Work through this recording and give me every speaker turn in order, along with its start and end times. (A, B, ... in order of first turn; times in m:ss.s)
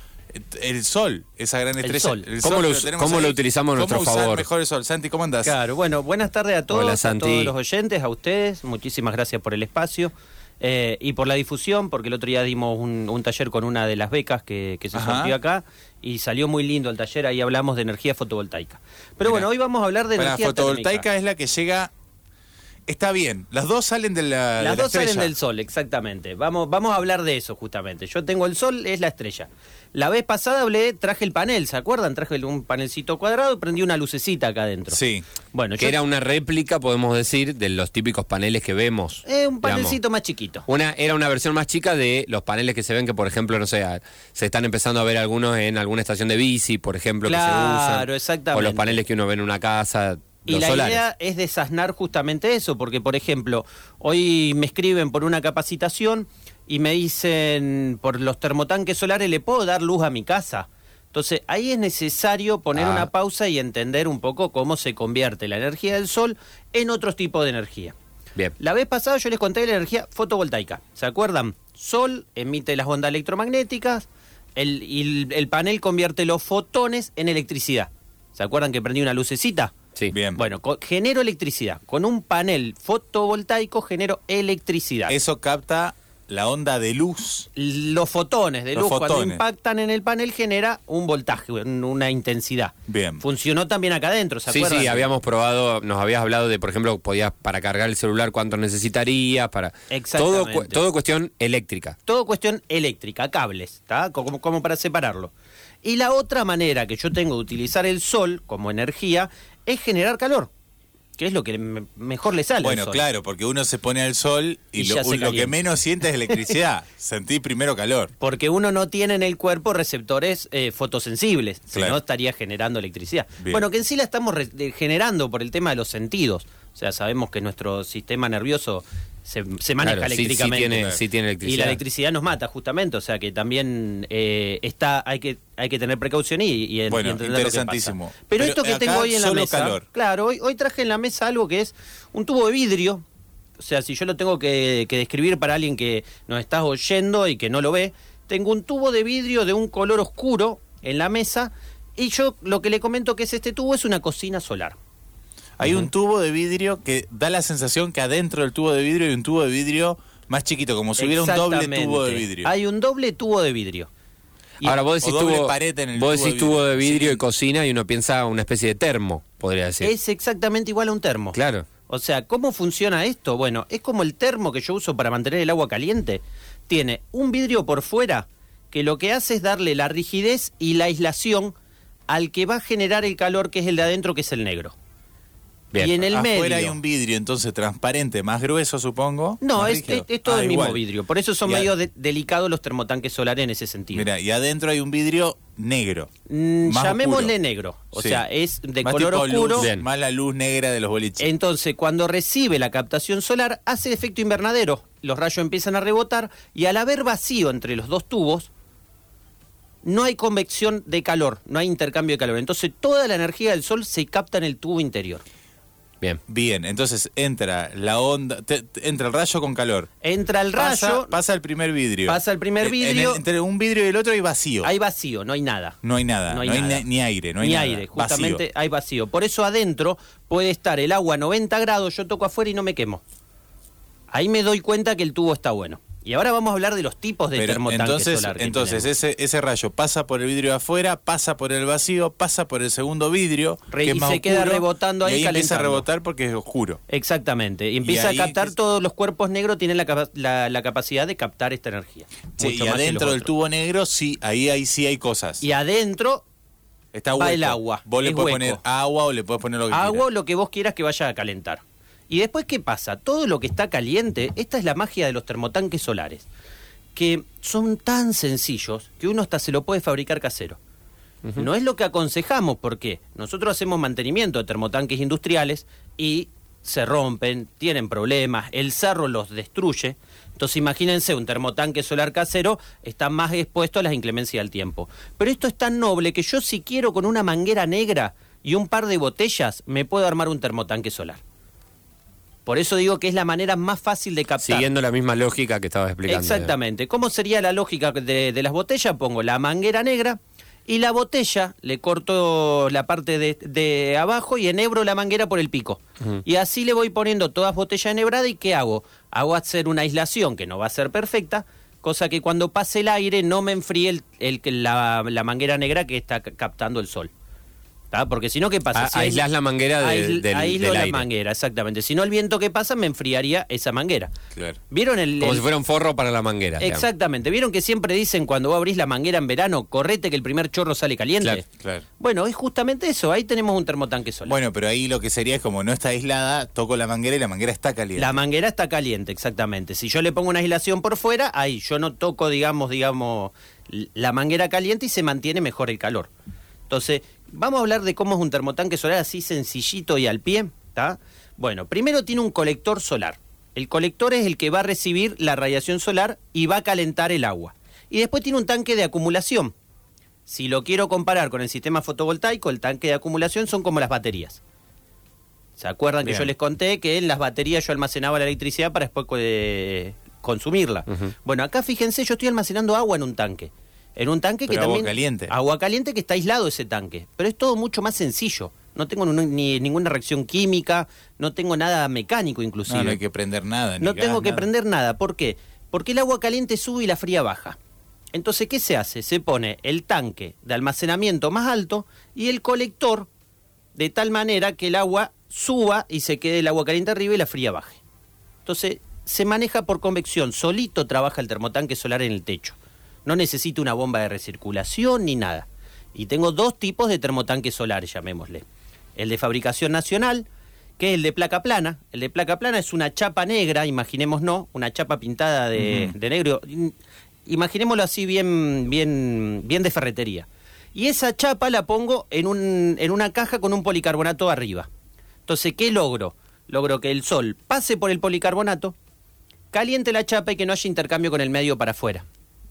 0:00.3-0:05.6 A
0:01.8-0:02.3 B
0:02.4-0:04.5 C
0:05.4-0:21.0 B
0:06.7-0:07.5 C
0:14.9-0:15.4 A
0:19.2-0:19.5 A
0:20.2-0:21.9 A
0:22.9-0:25.3 A
0:24.6-0:35.0 B
0:34.9-0:35.3 A
0:35.5-0:36.0 B
0:35.8-0:40.0 C
0:39.2-0:40.7 B
0:40.7-0:51.0 C
0:47.2-0:49.0 B
0:50.5-1:08.0 B
1:02.8-1:03.1 C
1:08.6-1:19.7 B
1:20.1-1:20.4 A
1:20.4-1:25.2 B
1:25.1-1:27.5 A
1:27.6-1:35.1 B
1:28.8-1:29.4 A
1:32.9-1:33.2 A
1:34.5-1:42.0 C
1:39.9-1:40.8 B
1:42.1-1:45.3 B
1:45.8-1:50.5 B
1:51.2-1:53.0 B
1:52.6-1:58.1 A
1:54.8-1:55.6 B
1:58.2-2:23.0 B
2:09.8-2:11.8 C
2:16.9-2:19.8 A
2:23.6-2:34.8 B
2:35.6-2:42.5 A
2:41.0-2:43.9 B
2:44.6-2:49.9 C
2:44.7-2:47.2 A
2:49.8-3:01.6 B
2:51.3-2:51.7 C
3:02.1-3:04.7 B
3:05.7-3:06.8 B
3:06.0-3:10.8 A
3:09.4-3:14.1 B
3:11.5-3:11.7 A
3:14.0-3:16.1 A
3:16.3-3:19.7 B
3:16.7-3:17.3 A
3:18.0-3:18.2 A
3:18.8-3:21.3 A
3:19.6-3:19.8 C
3:21.2-3:28.5 B
3:29.8-3:35.2 B
3:36.3-3:39.9 A
3:40.0-3:41.1 B
3:40.6-3:44.7 A
3:42.1-3:43.2 B
3:44.6-3:45.8 B
3:45.8-3:48.4 A
3:46.3-3:46.8 B
3:47.4-3:53.0 B
3:54.1-3:58.9 B
3:57.4-4:06.8 A
4:03.7-4:05.9 B
4:06.9-4:13.3 B
4:07.8-4:08.5 A
4:12.4-4:15.4 A
4:15.4-4:16.2 B
4:16.9-4:20.0 A
4:17.1-4:18.6 B
4:19.7-4:26.3 B
4:27.0-4:30.6 B
4:31.4-4:51.2 B
4:52.5-4:54.7 B
4:54.4-4:56.5 C
4:56.1-5:17.1 B
5:17.9-5:19.2 B
5:18.7-5:21.1 C
5:19.8-5:24.1 B
5:24.3-5:24.6 A
5:24.7-5:25.5 B
5:25.2-5:26.8 C
5:26.6-5:31.4 B
5:31.6-5:31.8 A
5:32.0-5:34.4 B
5:34.3-5:38.1 A
5:38.0-5:46.1 B
5:46.7-5:59.5 B
6:00.3-6:04.4 B
6:05.6-6:23.0 B
6:06.0-6:06.3 A
6:14.5-6:15.3 A
6:22.7-6:24.5 A
6:23.8-6:27.6 B
6:28.1-6:33.1 B
6:33.8-6:37.8 B
6:38.4-6:50.3 B
6:50.8-6:56.8 B
6:55.6-6:55.9 A
6:57.3-7:04.7 B
7:05.3-7:08.8 B
7:09.5-7:12.0 B